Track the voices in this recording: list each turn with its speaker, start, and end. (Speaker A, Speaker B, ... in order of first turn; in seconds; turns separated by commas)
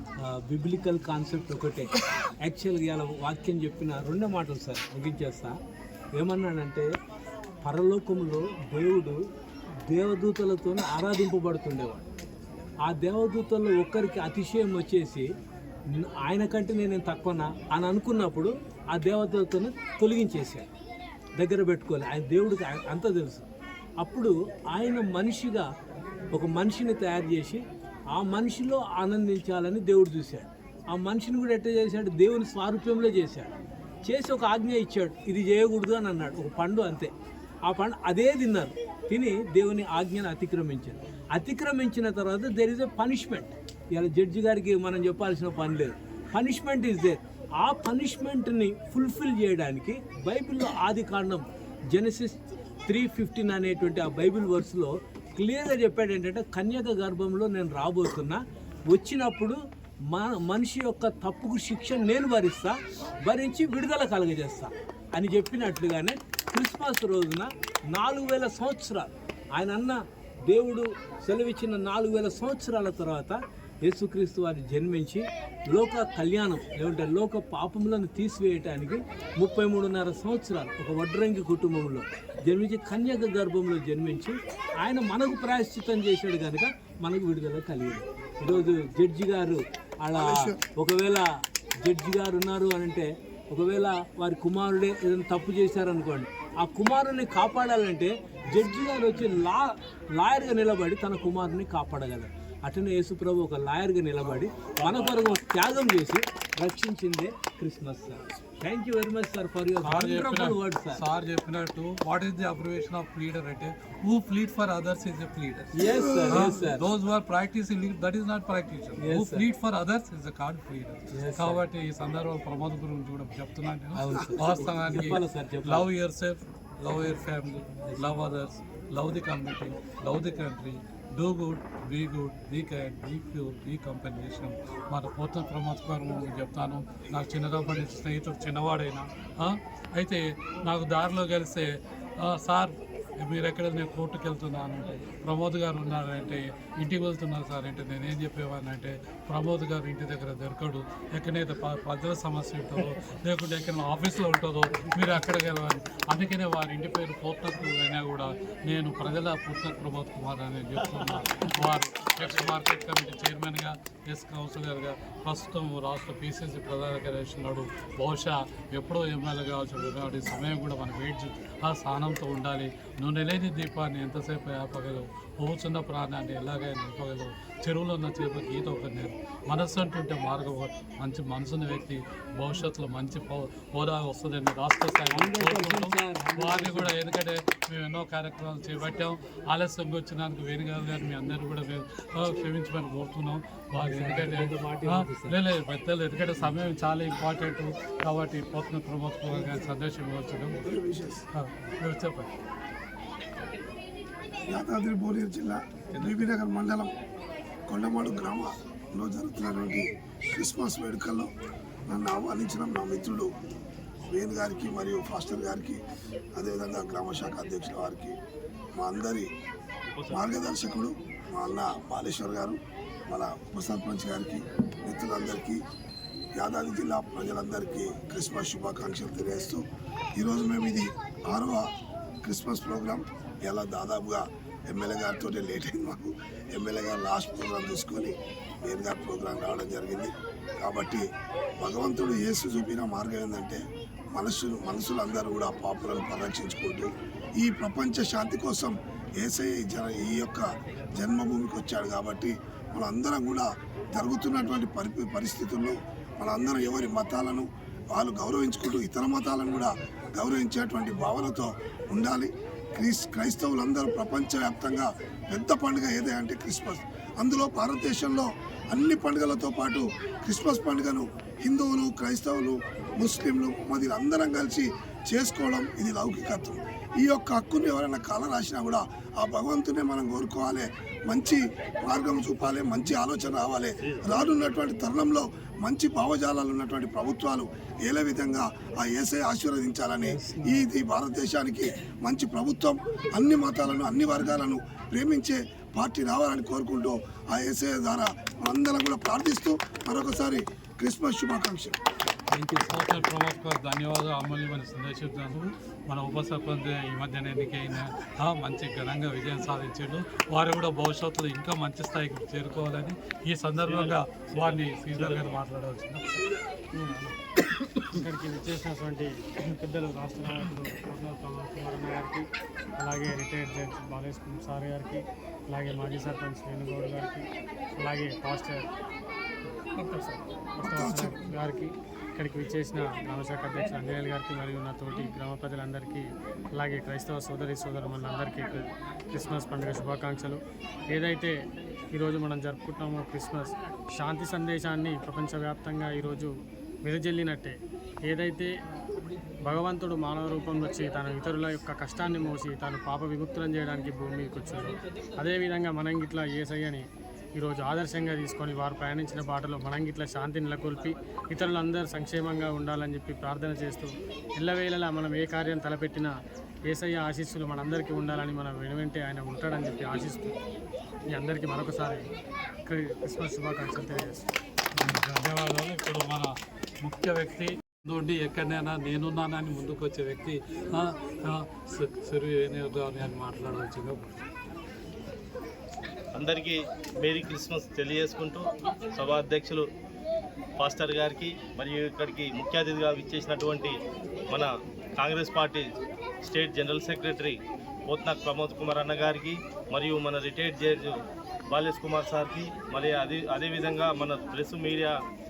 Speaker A: 0.2-1.9, Speaker A: 2.4-5.5, Speaker A: 6.2-6.9, Speaker A: 7.6-9.2, Speaker A: 9.9-12.1, Speaker A: 12.8-15.3, Speaker A: 15.9-20.7, Speaker A: 21.4-23.5, Speaker A: 24.0-25.7, Speaker A: 26.3-37.1, Speaker A: 37.6-59.6, Speaker A: 60.1-91.3, Speaker B: 90.1-90.6, Speaker A: 91.8-111.0, Speaker C: 104.8-105.3, Speaker D: 109.8-115.8, Speaker A: 115.7-116.8, Speaker B: 115.8-116.7, Speaker D: 116.3-200.6, Speaker A: 119.0-119.5, Speaker A: 121.1-121.6, Speaker A: 123.9-125.9, Speaker B: 124.1-124.8, Speaker A: 127.8-128.2, Speaker C: 161.0-161.5, Speaker A: 185.1-186.9, Speaker A: 193.8-195.3, Speaker B: 200.6-201.2, Speaker D: 201.3-202.3, Speaker B: 204.5-206.9, Speaker B: 207.7-211.3, Speaker B: 211.9-213.3, Speaker B: 214.0-215.8, Speaker B: 216.3-218.2, Speaker B: 218.8-219.3, Speaker C: 219.9-220.3, Speaker B: 220.1-225.6, Speaker B: 226.4-229.6, Speaker B: 230.2-231.7, Speaker B: 232.2-241.1, Speaker B: 241.6-243.6, Speaker B: 244.1-301.8, Speaker A: 290.0-290.7, Speaker A: 302.3-303.1, Speaker D: 302.7-316.3, Speaker C: 313.6-315.4, Speaker E: 316.7-317.1, Speaker E: 317.9-322.3, Speaker E: 322.8-328.7, Speaker E: 329.6-340.4, Speaker B: 330.6-331.2, Speaker E: 340.9-341.4, Speaker E: 341.9-346.3, Speaker E: 346.8-347.6, Speaker E: 348.1-348.5, Speaker E: 349.4-356.8, Speaker E: 357.4-366.1, Speaker E: 366.7-370.4, Speaker E: 371.1-372.0, Speaker E: 372.7-374.2, Speaker D: 374.8-384.2, Speaker C: 386.1-389.6, Speaker C: 390.6-393.7, Speaker C: 394.3-395.7, Speaker C: 396.2-400.9, Speaker C: 401.5-404.9